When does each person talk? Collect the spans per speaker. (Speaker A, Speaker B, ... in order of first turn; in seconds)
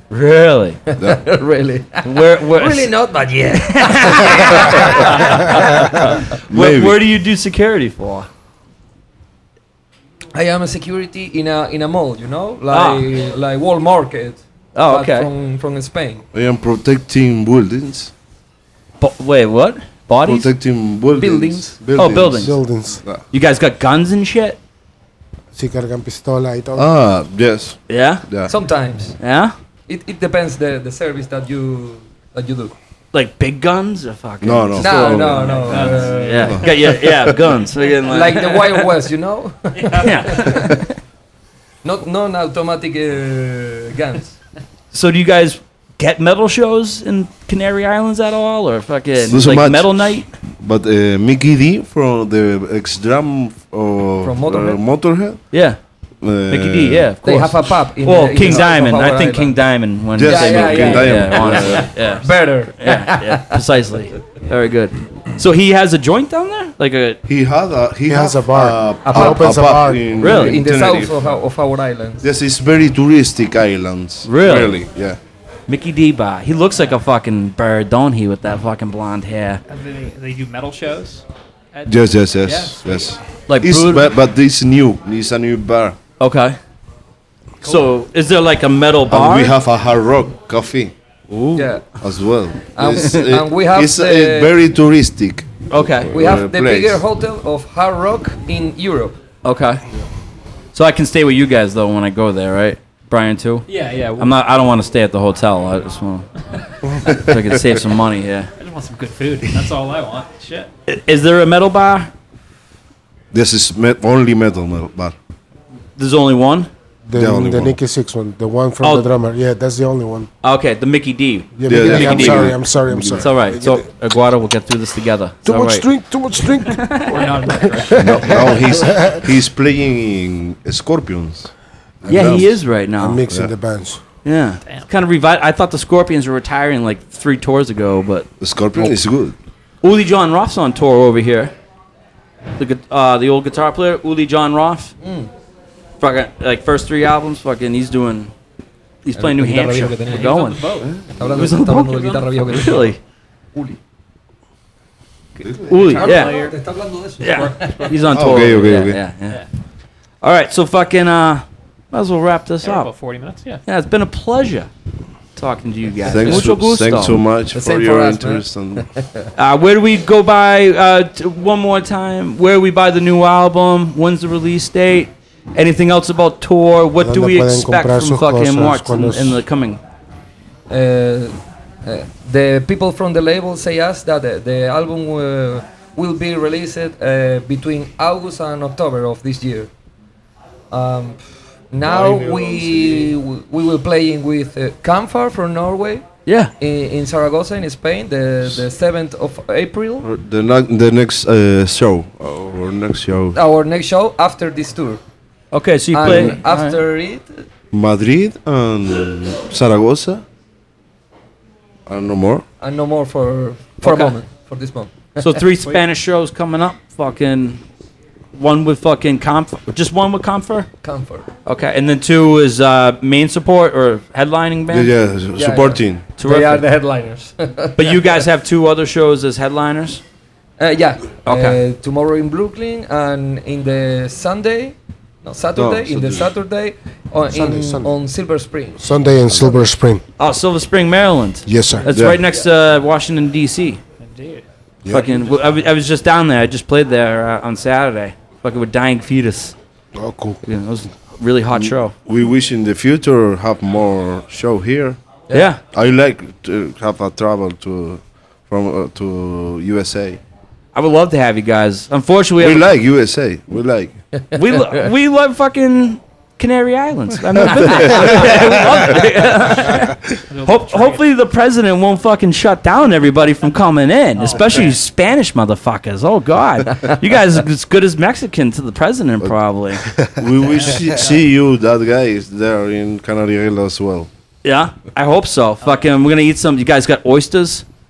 Speaker A: 0.1-0.8, 2.0-2.9, 3.5-8.3, 12.7-13.0, 14.8-15.3, 19.0-20.5, 22.0-22.6, 23.3-24.6, 27.9-28.2, 29.2-29.6, 33.1-38.9, 40.0-41.0, 44.9-50.3, 55.5-55.8, 56.5-67.2, 70.2-70.6, 74.2-74.8, 75.7-79.6, 83.5-84.1, 86.2-86.6, 87.6-89.6, 91.3-91.7, 95.7-96.2, 99.4-99.8, 100.7-106.3, 107.0-108.5, 110.9-112.1, 116.0-116.7, 118.8-119.1, 120.4-122.6, 123.2-125.9, 126.7-127.4, 132.1-133.2, 134.2-138.9, 139.8-141.5, 142.6-144.9, 146.0-148.3, 149.1-150.6, 151.2-153.0, 155.7-156.4, 157.2-159.4, 160.2-162.9, 163.7-164.7, 165.4-167.2, 169.4-179.8, 196.3-196.5, 205.5-206.8, 213.8-214.2, 215.2-217.6, 218.3-220.7, 221.5-224.9, 226.2-226.6, 227.8-230.0, 231.3-231.6, 240.2-243.8, 244.9-249.6, 250.4-251.9, 255.3-255.6, 260.7-262.7, 264.4-279.9, 284.4-287.6
Speaker B: 0.9-5.6, 10.3-16.2, 21.2-21.8, 28.5-29.2, 29.9-32.7, 34.8-36.4, 38.0-40.8, 41.8-44.4, 54.2-54.8, 57.2-59.5, 60.2-63.5, 69.0-69.6, 70.2-72.2, 91.6-91.8, 92.8-94.5, 96.1-99.2, 145.0-145.3, 149.2-150.4, 151.2-152.9, 155.9-157.9, 167.5-169.3, 180.7-189.7, 190.7-191.2, 191.7-196.1, 196.6-200.1, 203.3-205.0, 205.9-207.5, 212.6-215.4, 220.8-221.3, 225.4-228.2, 230.6-238.8
Speaker C: 1.0-1.3, 6.5-7.0, 16.3-18.1, 20.2-22.5, 26.8-28.5, 34.4-35.8, 36.4-37.6, 49.2-49.9, 50.6-55.4, 56.2-57.1, 60.2-61.9, 67.3-71.1, 72.2-75.2, 81.8-86.0, 89.1-90.9, 92.0-97.0, 113.3-115.2, 117.1-117.8, 121.7-123.4, 128.0-132.6, 138.4-139.3, 158.1-159.0, 166.1-168.9, 191.9-193.0, 200.0-203.4, 206.0-206.4, 207.7-210.2, 211.9-212.4, 224.7-226.1, 235.6-236.3, 241.9-242.2, 251.5-255.0, 255.7-260.2, 262.4-263.9, 267.4-268.4, 280.1-284.1
Speaker D: 22.3-23.0, 25.6-26.9, 68.1-70.1, 117.1-120.3, 121.6-123.8, 125.5-129.2, 133.0-134.0, 177.0-179.4, 237.3-237.9, 238.8-240.0, 241.5-241.9, 249.9-250.4
Speaker E: 35.6-36.7, 39.8-40.5, 79.7-83.2, 87.6-87.9, 103.7-104.3, 108.6-110.7, 127.1-128.8, 150.1-152.9, 155.4-156.6, 157.2-158.3, 162.6-163.6, 244.0-244.4, 245.0-245.4, 270.3-271.1, 274.2-274.8